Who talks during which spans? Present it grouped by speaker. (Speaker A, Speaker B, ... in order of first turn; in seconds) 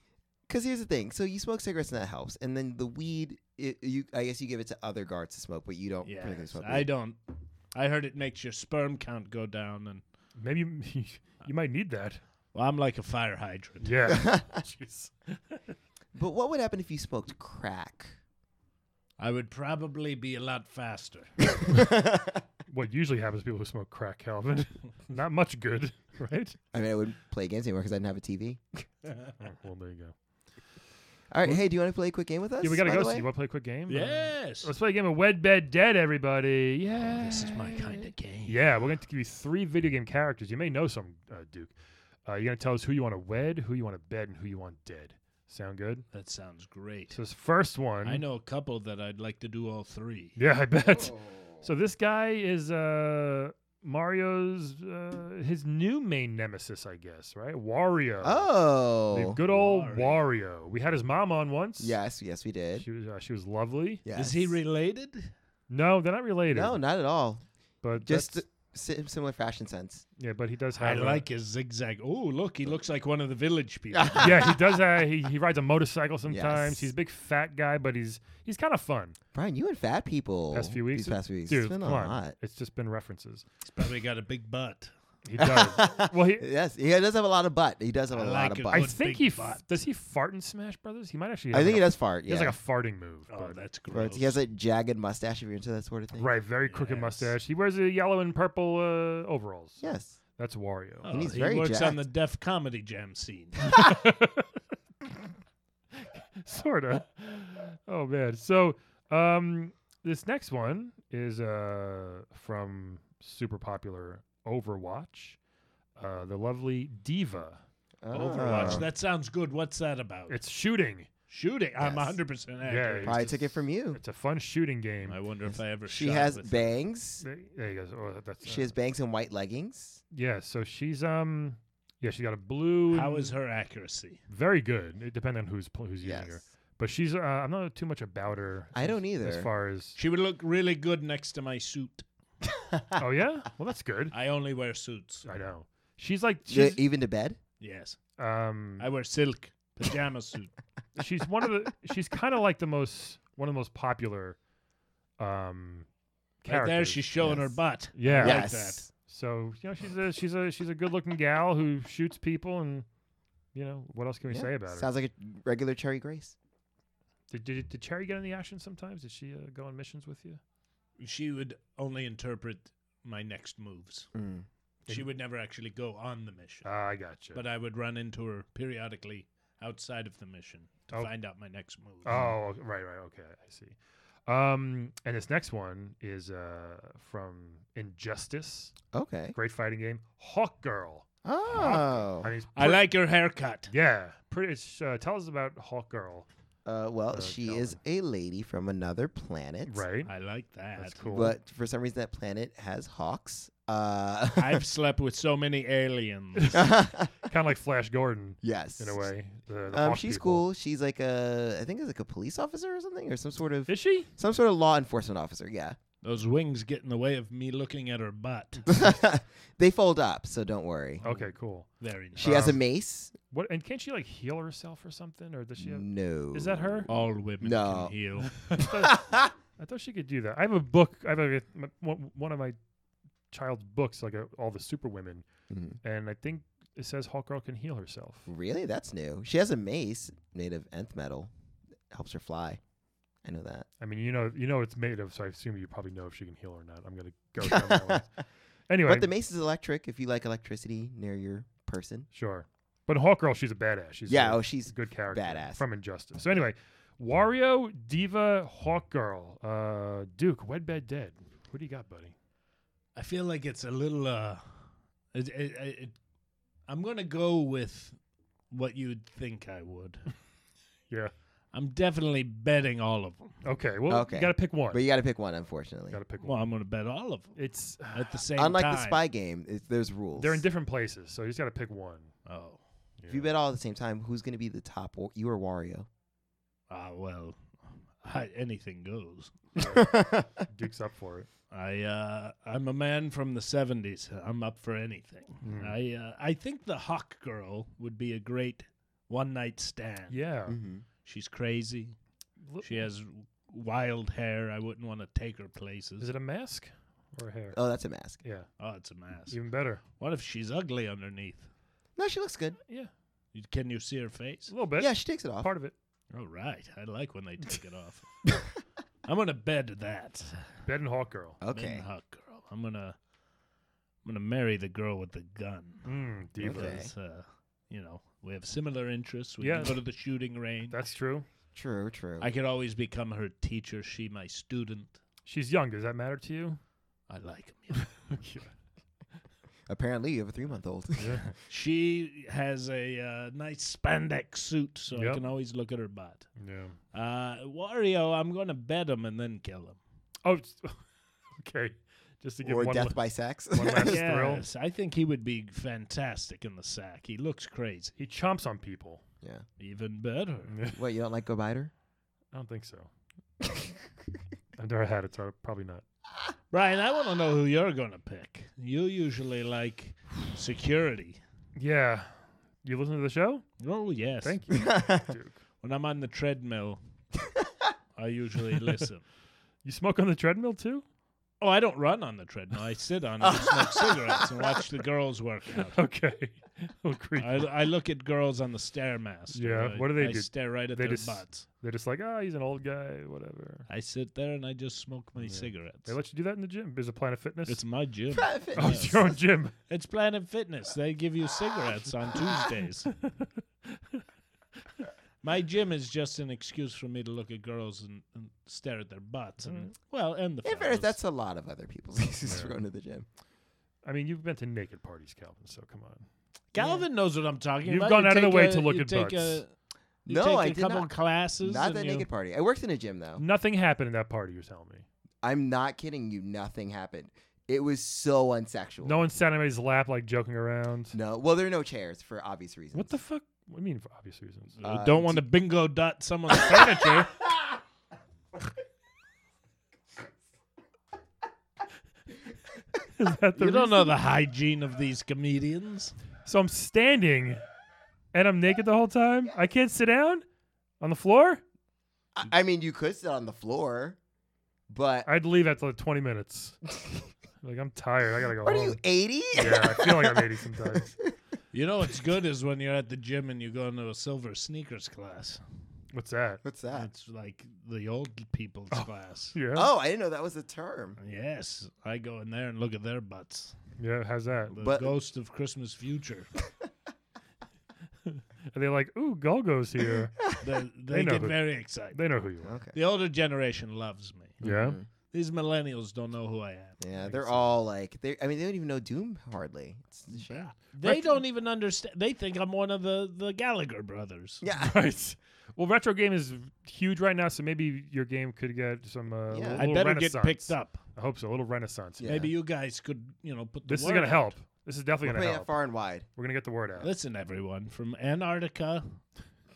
Speaker A: 0.5-6.9, 14.1-14.6, 16.1-18.2, 21.6-22.4, 26.7-28.8, 31.3-33.2, 50.9-51.4, 58.2-59.4, 61.8-62.9, 64.0-64.5, 66.5-70.0, 73.9-74.6, 76.3-76.9, 79.3-82.3, 85.4-88.9, 91.5-92.6, 93.9-96.3, 99.8-100.2, 101.1-102.0, 118.0-118.9, 121.8-122.2, 123.0-124.0, 125.8-127.2, 128.4-130.0, 136.0-136.4, 138.7-139.5, 142.6-143.0, 146.5-147.4, 157.2-157.5, 158.0-158.9, 164.3-166.3, 174.1-174.5, 182.1-182.3, 188.9-189.3, 191.2-192.3, 196.7-199.8, 201.1-204.6, 206.5-207.3, 208.4-209.1, 209.7-215.8, 218.7-221.0, 222.2-223.2, 225.6-226.9, 227.4-227.9, 228.6-229.3, 235.5-235.8, 238.3-241.3, 241.9-242.6, 243.2-243.7, 247.4-248.0, 248.8-252.1, 254.1-255.6, 273.9-276.0, 278.4-280.4, 283.1-285.9, 289.7-290.3, 300.5-300.8, 307.5-308.2, 312.0-312.6, 314.8-315.5, 321.4-321.9, 326.4-326.9, 331.5-332.3, 339.7-341.2, 352.4-354.1, 360.7-361.7, 374.5-375.1, 383.2-384.2, 398.1-399.1, 410.4-413.1, 416.6-416.9, 420.1-423.2, 425.2-429.0, 430.9-433.0, 434.6-435.2, 452.1-454.0, 454.7-455.1, 458.4-460.9, 466.4-466.9, 469.5-471.0, 474.6-474.9, 482.4-482.8, 484.4-484.9, 486.8-490.5, 494.4-494.8, 499.3-499.6, 502.0-502.3, 505.0-506.1
Speaker B: 6.0-10.0, 12.5-13.9, 19.2-21.3, 29.0-29.3, 33.9-34.7, 37.0-38.6, 46.1-47.2, 48.0-50.4, 59.5-60.2, 64.2-65.3, 70.8-74.5, 83.7-84.9, 88.1-89.6, 93.3-94.4, 96.7-97.3, 101.0-103.7, 118.1-120.4, 121.3-123.3, 125.0-126.8, 132.9-134.2, 140.0-142.1, 144.1-145.3, 147.6-148.0, 148.8-150.5, 156.5-158.8, 171.0-174.1, 174.9-176.7, 177.3-182.2, 192.5-193.7, 200.1-201.0, 204.3-206.6, 216.0-218.7, 221.0-222.5, 226.9-228.4, 262.9-266.0, 266.7-268.0, 268.5-270.1, 271.5-273.4, 276.2-277.4, 277.9-279.0, 282.2-282.6, 286.7-289.4, 291.5-300.2, 301.0-302.0, 302.6-306.1, 308.6-309.4, 310.0-311.5, 313.3-314.5, 316.1-318.2, 319.0-320.5, 321.5-323.0, 324.0-330.9, 332.2-335.0, 337.1-338.0, 341.3-346.3, 346.9-349.8, 353.8-358.0, 359.6-360.5, 366.5-371.2, 373.6-374.4, 375.6-376.8, 378.0-379.0, 381.4-385.8, 387.2-391.4, 393.7-395.9, 397.5-399.0, 399.7-402.9, 405.2-411.0, 416.5-419.5, 420.1-422.1, 434.6-437.1, 443.4-445.9, 461.5-465.4, 466.7-469.4, 471.0-473.6, 474.5-476.3, 480.4-482.0, 482.7-484.5, 485.1-487.5, 490.2-494.4, 499.6-500.8, 502.0-504.3, 506.8-509.0
Speaker C: 10.4-12.2, 13.8-15.7, 22.7-26.6, 29.4-30.1, 32.6-37.9, 38.5-41.7, 42.2-46.1, 47.1-48.2, 50.4-58.5, 59.1-62.0, 62.8-64.0, 65.7-66.8, 67.8-68.4, 70.2-71.2, 74.2-79.2, 80.5-83.4, 85.2-86.5, 88.7-93.6, 96.2-101.2, 103.7-104.5, 106.0-115.4, 116.0-117.6, 118.1-118.9, 120.3-121.1, 122.6-123.3, 123.9-125.2, 127.2-128.7, 130.1-133.3, 134.3-140.0, 143.0-144.1, 145.2-146.8, 148.2-148.9, 151.0-154.4, 155.2-155.9, 156.4-157.3, 157.9-162.8, 163.5-164.9, 167.3-170.4, 176.6-177.4, 182.0-188.8, 189.3-192.8, 193.7-196.3, 197.1-197.8, 199.7-200.1, 200.8-201.4, 206.4-210.4, 213.7-214.1, 221.0-222.6, 223.3-226.9, 228.2-232.6, 233.3-235.2, 235.8-238.3, 243.8-248.1, 248.7-249.1, 252.1-262.1, 273.4-274.8, 275.9-276.4, 277.4-278.1, 280.2-282.1, 283.0-283.3, 289.6-291.3, 295.4-295.8, 300.1-300.6, 302.5-302.9, 306.0-307.6, 308.2-308.5, 309.3-309.8, 314.5-315.7, 320.6-321.4, 325.9-326.8, 329.4-329.9, 330.7-331.3, 335.2-336.6, 338.1-338.5, 344.9-345.2, 346.4-346.8, 350.2-350.8, 351.4-354.4, 358.0-359.0, 360.5-360.8, 362.3-362.9, 364.6-365.8, 371.6-373.5, 374.2-375.4, 379.6-380.8, 385.6-387.6, 389.3-393.7, 395.2-397.6, 398.6-399.5, 409.4-409.7, 412.2-412.6, 413.8-416.1, 417.6-419.4, 423.2-424.9, 428.8-431.0, 432.7-434.6, 442.9-444.0, 446.2-447.4, 448.1-450.2, 450.8-451.4, 455.1-456.8, 457.4-458.8, 459.3-460.9, 465.9-466.4, 468.7-469.7, 473.8-474.6, 478.1-480.4, 480.9-482.5, 484.4-484.8, 490.8-491.2, 494.5-502.1, 503.7-505.6, 506.1-506.9